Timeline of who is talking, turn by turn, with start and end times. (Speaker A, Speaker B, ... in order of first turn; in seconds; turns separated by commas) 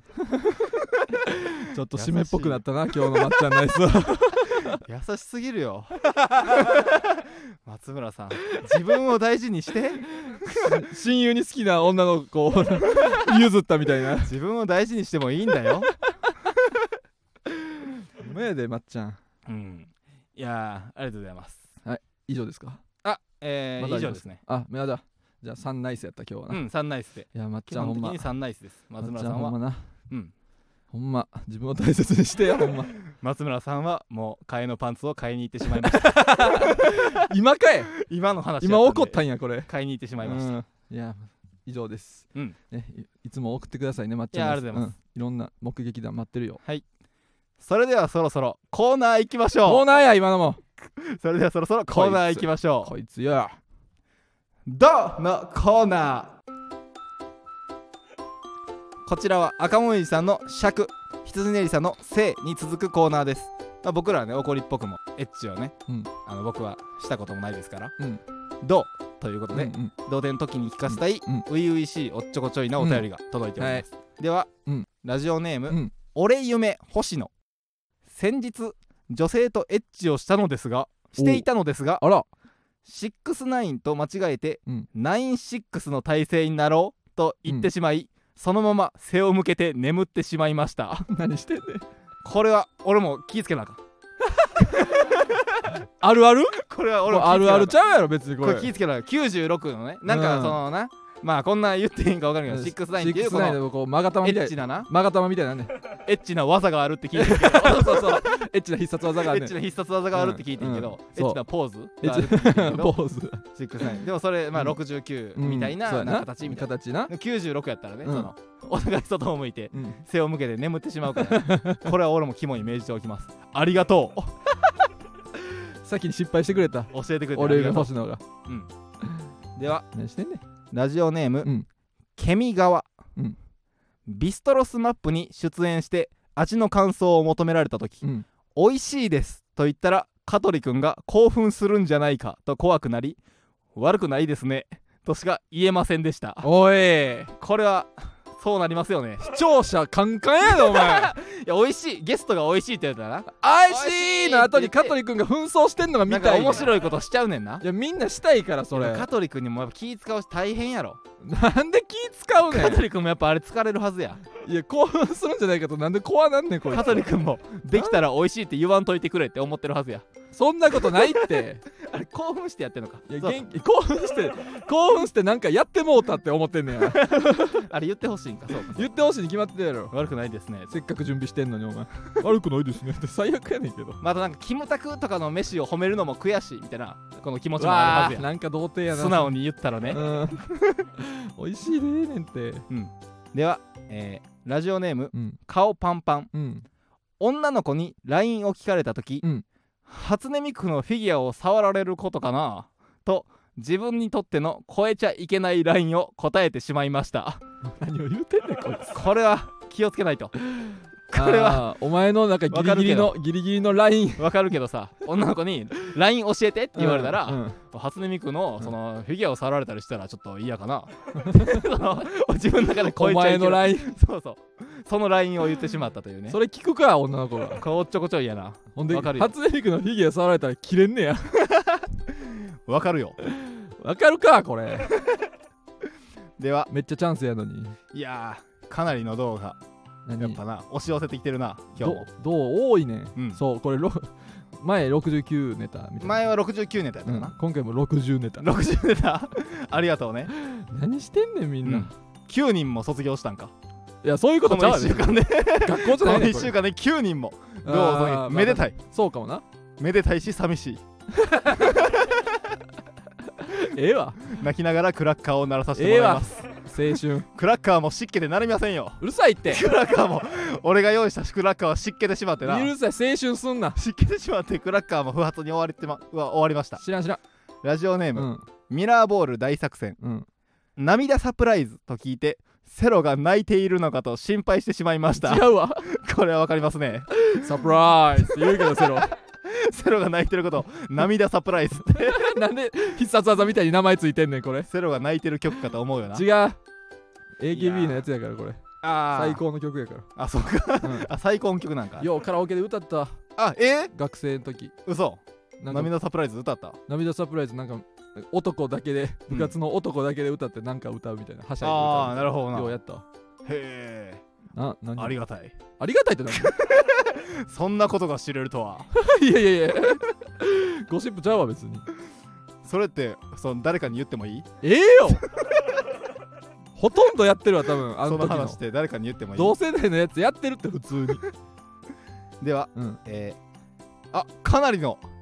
Speaker A: 0.2-0.7, Speaker A: 1.2-4.8, Speaker B: 1.9-2.6, Speaker B: 4.7-10.8, Speaker A: 6.2-6.7, Speaker A: 10.3-14.3, Speaker B: 14.2-15.9, Speaker A: 18.2-19.2, Speaker B: 19.4-21.6, Speaker A: 21.8-22.8, Speaker B: 23.0-24.4, Speaker A: 23.8-26.6, Speaker B: 26.5-29.6, Speaker A: 27.3-28.2, Speaker A: 29.0-29.9, Speaker A: 30.9-33.0, Speaker B: 33.0-37.3, Speaker A: 35.7-37.9, Speaker B: 37.9-40.5, Speaker A: 38.6-39.7, Speaker A: 40.2-46.6, Speaker B: 44.3-44.9, Speaker B: 47.6-49.9, Speaker A: 49.6-50.6, Speaker B: 51.0-52.9, Speaker A: 51.9-53.6, Speaker B: 54.6-56.4, Speaker B: 59.0-67.9, Speaker B: 68.6-74.5, Speaker A: 69.5-69.9, Speaker A: 70.9-71.5, Speaker A: 72.8-73.0, Speaker A: 73.6-73.8, Speaker B: 75.0-77.3, Speaker A: 75.7-75.9, Speaker B: 78.1-82.0, Speaker A: 81.2-81.5, Speaker A: 82.0-82.3, Speaker B: 82.8-91.1, Speaker A: 91.0-91.8, Speaker B: 92.2-93.8, Speaker B: 94.6-95.7, Speaker A: 94.6-95.2, Speaker A: 96.0-98.7, Speaker B: 96.5-97.8, Speaker B: 98.4-103.6, Speaker A: 100.1-100.6, Speaker A: 102.5-105.9, Speaker B: 104.2-104.9, Speaker B: 105.9-108.4, Speaker A: 107.1-109.5, Speaker B: 109.2-113.0, Speaker A: 110.1-111.4, Speaker A: 112.0-114.0, Speaker B: 113.5-124.3, Speaker A: 115.3-117.1, Speaker A: 118.0-118.3, Speaker A: 119.7-120.0, Speaker A: 121.2-121.9, Speaker A: 125.8-128.2, Speaker B: 126.9-127.9, Speaker B: 128.4-128.7, Speaker B: 129.6-129.8, Speaker A: 129.9-130.4, Speaker B: 130.7-131.5, Speaker B: 132.2-132.9, Speaker B: 134.1-138.0, Speaker B: 138.5-143.2, Speaker B: 143.7-146.4, Speaker A: 146.4-147.3, Speaker B: 147.4-149.2, Speaker A: 149.2-151.1, Speaker B: 150.4-154.9, Speaker A: 153.3-156.7, Speaker B: 156.1-157.6, Speaker A: 157.6-159.1, Speaker B: 158.7-161.0, Speaker A: 161.2-162.8, Speaker B: 162.5-164.2, Speaker A: 164.3-167.1, Speaker B: 166.7-170.1, Speaker A: 170.3-171.6, Speaker B: 170.8-171.3, Speaker B: 171.8-173.4, Speaker A: 173.1-177.7, Speaker B: 176.8-178.9, Speaker A: 178.7-179.9, Speaker B: 179.9-180.7, Speaker A: 180.7-184.0, Speaker B: 184.0-188.3, Speaker A: 187.6-189.3, Speaker B: 188.9-190.9, Speaker A: 189.9-192.7, Speaker B: 192.7-196.3, Speaker A: 195.1-195.4, Speaker A: 196.3-196.7, Speaker B: 197.2-199.2, Speaker B: 199.8-207.4, Speaker A: 207.6-209.0, Speaker B: 208.9-210.3, Speaker A: 210.4-214.3, Speaker B: 211.1-211.7, Speaker B: 212.5-213.2, Speaker B: 214.2-226.4, Speaker A: 216.8-217.6, Speaker A: 221.2-221.6, Speaker A: 222.8-223.9, Speaker A: 226.3-227.6, Speaker B: 227.6-229.3, Speaker A: 228.8-231.4, Speaker B: 231.4-233.2, Speaker A: 233.2-235.0, Speaker B: 236.4-236.7, Speaker A: 236.7-237.8, Speaker B: 237.9-239.6, Speaker A: 240.1-240.4, Speaker B: 240.2-242.1, Speaker A: 241.8-246.3, Speaker B: 246.0-247.3, Speaker A: 247.0-248.5, Speaker B: 248.4-250.3, Speaker A: 250.3-251.9, Speaker B: 251.6-253.5, Speaker A: 254.0-256.5, Speaker B: 254.4-258.7, Speaker A: 257.6-259.4, Speaker B: 259.8-260.8, Speaker A: 261.1-261.9, Speaker B: 261.5-262.4, Speaker A: 263.4-264.3, Speaker B: 264.2-266.4, Speaker A: 265.8-267.3, Speaker B: 267.3-272.7, Speaker A: 269.0-269.6, Speaker A: 272.4-273.8, Speaker B: 273.8-276.8, Speaker A: 276.8-277.2, Speaker B: 277.6-280.0, Speaker A: 278.1-278.5, Speaker A: 280.0-280.2, Speaker B: 280.8-287.5, Speaker A: 285.2-285.9, Speaker A: 287.2-289.1, Speaker B: 288.3-292.4, Speaker A: 292.0-294.7, Speaker B: 294.7-296.2, Speaker A: 296.1-296.6, Speaker A: 297.4-300.1, Speaker B: 297.5-298.0, Speaker B: 298.8-299.4, Speaker B: 300.1-302.1, Speaker A: 300.8-301.1, Speaker A: 302.0-303.2, Speaker B: 303.4-303.9, Speaker A: 303.9-304.7, Speaker B: 304.9-306.8, Speaker A: 305.6-305.9, Speaker A: 306.9-313.0, Speaker B: 309.3-309.5, Speaker B: 311.6-312.7, Speaker B: 313.4-314.2, Speaker A: 314.5-315.2, Speaker B: 315.0-315.5, Speaker A: 315.8-316.6, Speaker B: 316.3-318.9, Speaker A: 318.9-321.9, Speaker B: 322.6-324.5, Speaker A: 324.6-325.2, Speaker A: 326.8-328.6, Speaker B: 328.0-329.6, Speaker A: 329.4-331.3, Speaker B: 332.4-333.4, Speaker A: 332.7-333.0, Speaker B: 334.1-335.0